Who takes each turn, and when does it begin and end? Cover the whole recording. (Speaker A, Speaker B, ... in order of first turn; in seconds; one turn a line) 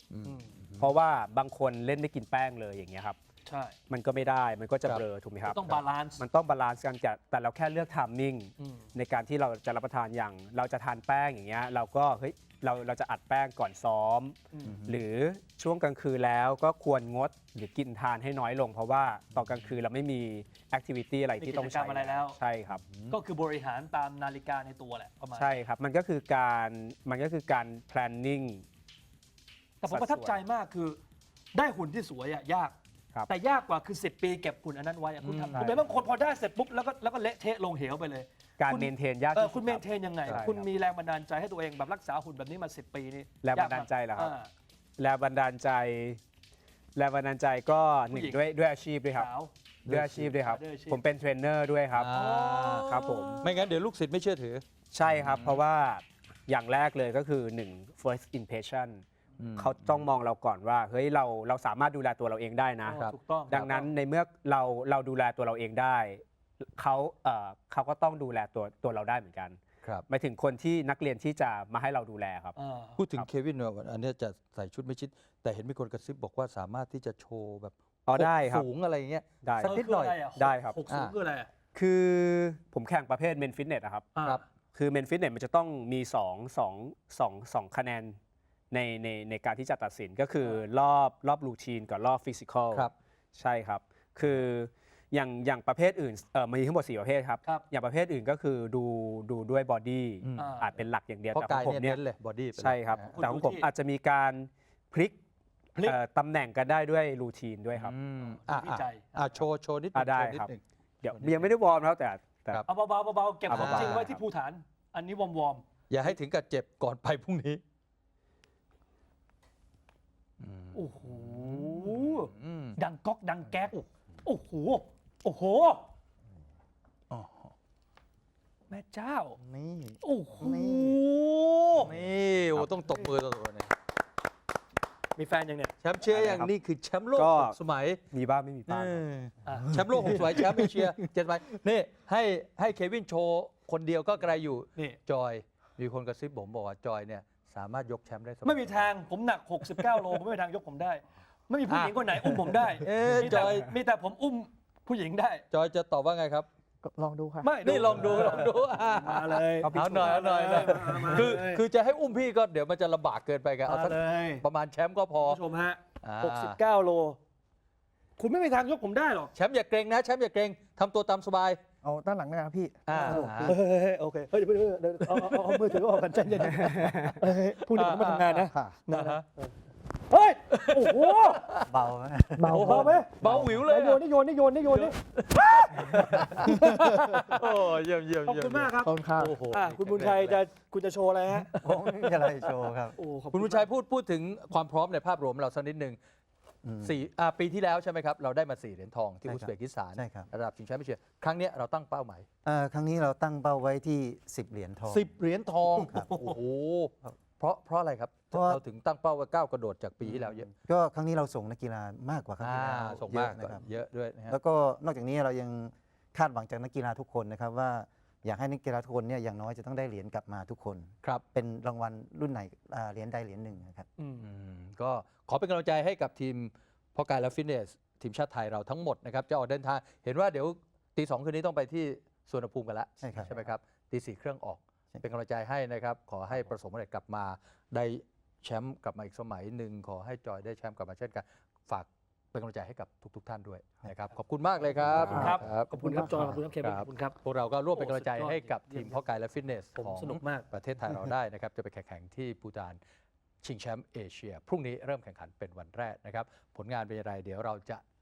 Speaker A: 0.1-0.9
Speaker B: 0.2-0.5
Speaker C: 0.8-3.2
Speaker B: 3.5-3.7
Speaker C: 3.9-22.8
Speaker B: 5.4-6.2
Speaker B: 8.6-8.8
Speaker A: 14.6-15.0
Speaker A: 19.3-19.7
Speaker B: 21.4-22.4
Speaker A: 22.7-23.1
Speaker B: 23.1-25.5
Speaker C: 25.3-28.6
Speaker B: 29.8-31.0
Speaker C: 29.9-30.4
Speaker B: 31.5-32.7
Speaker B: 33.3-44.5
Speaker A: 35.2-35.9
Speaker C: 38.6-40.7
Speaker C: 43.4-44.3
Speaker C: 45.0-46.2
Speaker C: 46.9-49.3
Speaker B: 48.1-48.4
Speaker B: 49.1-49.5
Speaker A: 49.9-50.4
Speaker C: 49.9-52.1
Speaker B: 50.4-51.0
Speaker A: 51.9-55.6
Speaker B: 52.1-53.7
Speaker C: 52.8-53.5
Speaker C: 54.9-59.0
Speaker A: 59.4-60.1
Speaker C: 59.5-66.2
Speaker B: 62.9-63.9
Speaker C: 66.7-72.5
Speaker B: 72.5-73.0
Speaker A: 73.0-80.2
Speaker C: 78.0-78.7
Speaker C: 79.4-79.8
Speaker B: 79.6-81.5
Speaker C: 80.3-80.8
Speaker A: 80.9-81.1
Speaker C: 81.7-84.1
Speaker B: 84.2-84.4
Speaker C: 84.7-88.2
Speaker C: 88.7-102.0
Speaker A: 100.2-100.6
Speaker B: 100.4-100.7
Speaker A: 101.3-103.1
Speaker C: 102.5-105.2
Speaker B: 103.1-103.7
Speaker C: 105.8-107.9
Speaker A: 107.7-110.6
Speaker B: 108.2-109.4
Speaker C: 109.9-112.6
Speaker A: 111.1-111.5
Speaker B: 112.7-115.7
Speaker C: 113.5-114.2
Speaker A: 113.5-114.1
Speaker A: 115.9-117.6
Speaker A: 120.4-122.8
Speaker B: 120.7-125.9
Speaker A: 127.1-127.5
Speaker B: 128.7-129.4
Speaker A: 129.4-131.0
Speaker B: 130.0-131.9
Speaker A: 131.8-133.7
Speaker B: 135.2-135.7
Speaker A: 135.8-138.0
Speaker C: 136.0-136.5
Speaker C: 137.2-137.6
Speaker C: 138.1-139.0
Speaker A: 138.7-148.8
Speaker B: 139.4-140.7
Speaker B: 148.4-155.4
Speaker A: 151.7-153.7
Speaker C: 153.3-153.6
Speaker A: 155.5-156.5
Speaker D: 156.8-157.6
Speaker B: 157.4-161.6
Speaker A: 157.6-165.4
Speaker C: 159.6-161.1
Speaker B: 163.6-164.4
Speaker B: 165.2-167.2
Speaker A: 166.0-166.6
Speaker B: 168.2-169.3
Speaker A: 169.3-171.6
Speaker D: 171.8-173.6
Speaker A: 172.8-173.6
Speaker B: 172.9-179.5
Speaker C: 176.7-177.1
Speaker A: 177.7-179.2
Speaker D: 178.4-178.9
Speaker B: 180.1-181.5
Speaker A: 180.6-181.7
Speaker E: 181.6-182.8
Speaker B: 182.4-187.7
Speaker A: 182.4-184.0
Speaker D: 182.6-183.4
Speaker A: 184.7-190.4
Speaker B: 188.2-191.5
Speaker D: 188.9-189.4
Speaker E: 191.5-193.0
Speaker A: 191.6-192.7
Speaker B: 192.9-193.7
Speaker A: 193.3-196.0
Speaker E: 196.6-197.0
Speaker A: 196.8-202.2
Speaker E: 199.2-200.3
Speaker E: 202.4-205.1
Speaker A: 204.9-210.5
Speaker B: 205.8-206.3
Speaker E: 205.8-206.1
Speaker E: 208.3-208.6
Speaker E: 210.0-213.6
Speaker A: 212.4-214.4
Speaker E: 214.3-223.8
Speaker B: 224.0-224.3
Speaker A: 224.2-252.8
Speaker E: 233.0-233.5
Speaker B: 244.9-247.2
Speaker B: 247.7-248.9
Speaker B: 249.7-250.5
Speaker A: 253.4-257.8